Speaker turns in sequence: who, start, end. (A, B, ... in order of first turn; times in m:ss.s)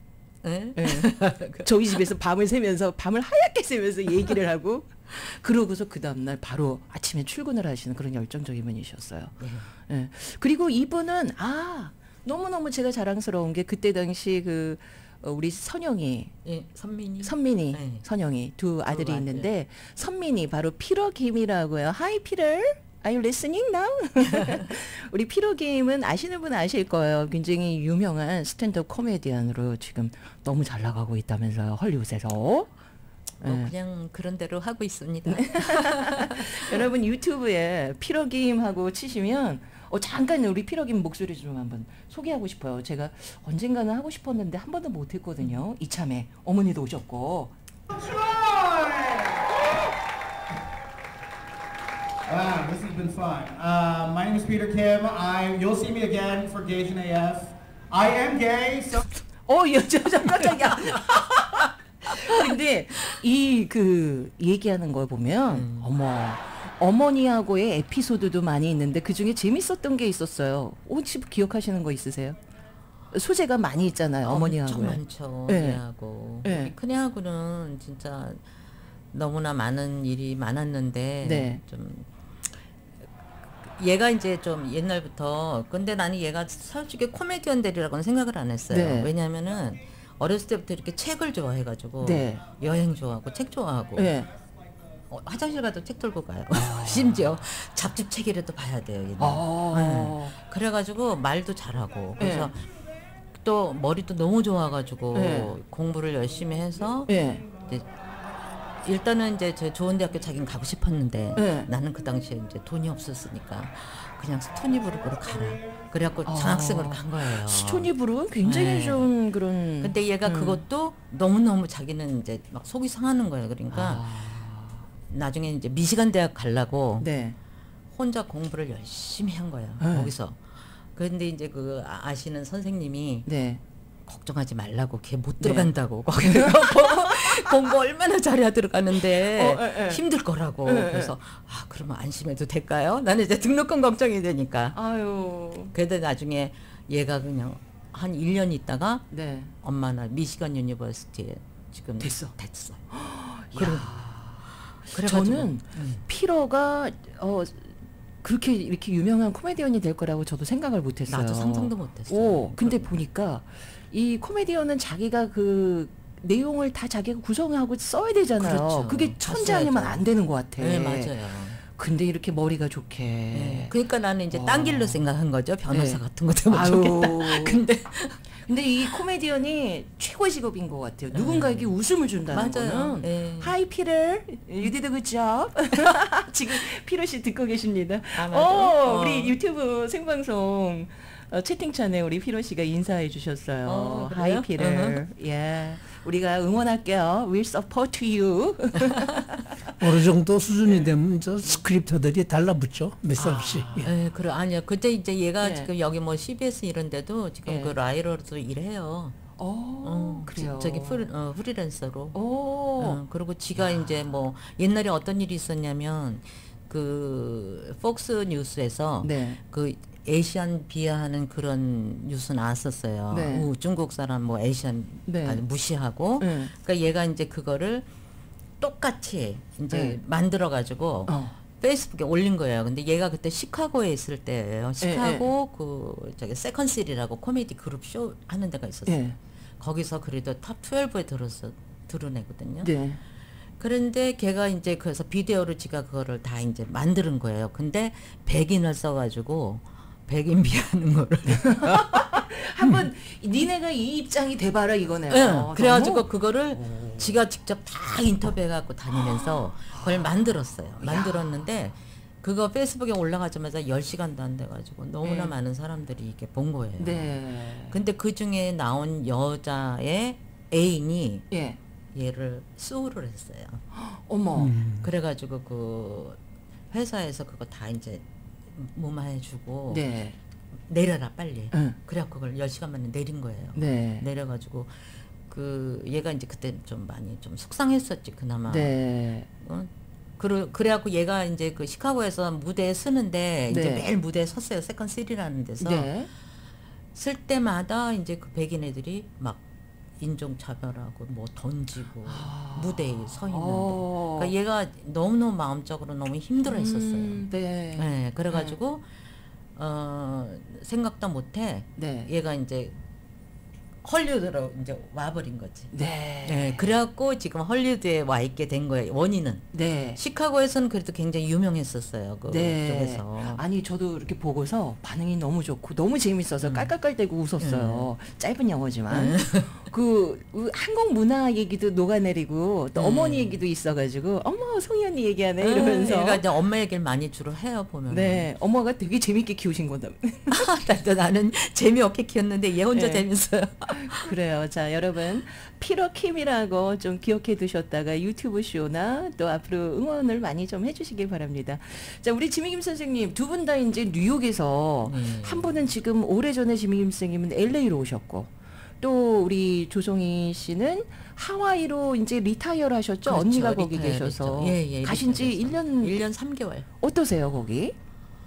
0:00.4-0:01.7 A
0:00.8-0:01.1 B
0:01.6-0:16.3 B
0:09.4-0:09.7 A
0:16.4-0:18.0 A
0:17.2-0:32.7 B
0:18.9-0:19.5 A
0:33.4-0:33.7 B
0:33.4-0:36.2 A
0:35.3-0:47.5 B
0:47.9-0:49.4 C
0:52.2-0:59.0 C
0:59.4-1:12.4 B
1:05.5-1:05.9 A
1:13.1-1:15.8 B
1:14.2-1:18.4 A
1:16.4-1:16.7 B
1:19.1-1:22.1 A
1:21.2-1:21.6 B
1:23.6-1:34.2 A
1:28.7-1:29.1 B
1:32.0-1:32.4 B
1:34.0-1:34.3 B
1:35.1-1:42.6 A
1:36.5-1:37.2 B
1:39.2-1:40.3 B
1:42.2-1:42.5 B
1:43.3-1:47.9 A
1:45.1-1:45.5 B
1:47.1-1:47.5 B
1:48.8-1:57.9 A
1:51.4-1:51.7 B
1:56.2-2:00.6 B
1:58.4-1:59.1 A
1:59.8-2:04.1 A
2:03.7-2:04.8 B
2:05.1-2:07.1 A
2:07.0-2:07.4 B
2:07.9-2:13.3 A
2:09.8-2:10.1 B
2:13.2-2:13.6 B
2:14.1-2:24.8 A
2:15.4-2:15.7 B
2:16.2-2:17.5 B
2:19.0-2:20.0 B
2:20.6-2:21.1 B
2:24.7-2:25.7 B
2:25.7-2:29.1 A
2:29.1-2:29.5 B
2:29.6-2:32.9 A
2:32.0-2:32.3 B
2:32.9-2:53.7 B
2:33.5-2:33.9 A
2:34.7-2:36.0 A
2:41.1-2:42.9 A
2:48.4-2:50.0 A
2:50.6-2:51.6 A
2:53.3-2:58.2 A
2:54.3-2:55.0 B
2:55.7-2:57.6 B
2:58.4-3:19.5 B
3:01.1-3:01.7 A
3:02.3-3:03.5 A
3:08.1-3:09.3 A
3:13.6-3:15.0 A
3:19.8-3:23.9 D
3:23.2-3:23.9 B
3:23.8-3:29.2 A
3:25.4-3:25.7 B
3:27.4-3:27.8 B
3:29.4-3:31.1 B
3:29.8-3:32.2 A
3:32.1-3:33.0 B
3:32.8-3:47.8 A
3:33.6-3:34.1 B
3:39.0-3:39.4 B
3:43.1-3:43.5 B
3:45.1-3:45.4 B
3:46.2-3:46.5 B
3:48.6-3:59.0 A
3:49.7-3:50.0 B
3:51.1-3:51.3 B
3:54.8-3:55.2 B
3:58.8-3:59.2 B
3:59.6-4:02.7 A
4:02.6-4:03.0 B
4:03.6-4:12.0 A
4:11.3-4:17.1 B
4:15.1-4:31.3 A
4:18.9-4:21.4 B
4:25.0-4:25.3 B
4:26.8-4:27.8 B
4:31.3-4:31.6 B
4:31.9-4:33.6 A
4:33.7-4:34.6 B
4:34.3-4:34.9 D
4:34.8-4:36.2 A
4:36.7-4:39.8 A
4:39.7-4:40.2 B
4:40.7-4:48.7 A
4:41.5-4:41.8 B
4:43.5-4:44.1 B
4:48.5-4:49.3 B
4:49.4-4:55.9 A
4:53.5-4:53.8 B
4:55.6-4:56.1 B
4:56.9-4:59.4 A
5:00.0-5:08.9 A
5:02.0-5:04.3 B
5:06.4-5:08.6 B
5:09.6-5:12.7 A
5:11.8-5:12.1 B
5:13.8-5:15.7 A
5:15.7-5:16.7 B
5:16.2-5:23.4 A
5:19.5-5:20.0 B
5:22.3-5:36.2 B
5:26.4-5:26.7 A
5:27.4-5:27.9 A
5:28.9-5:29.5 A
5:32.7-5:33.4 A
5:35.4-5:38.3 A
5:37.9-5:40.3 B
5:40.3-5:44.1 A
5:42.7-5:43.0 B
5:43.8-6:06.0 B
5:54.8-5:55.5 A
6:03.0-6:06.7 A
6:06.8-6:07.7 B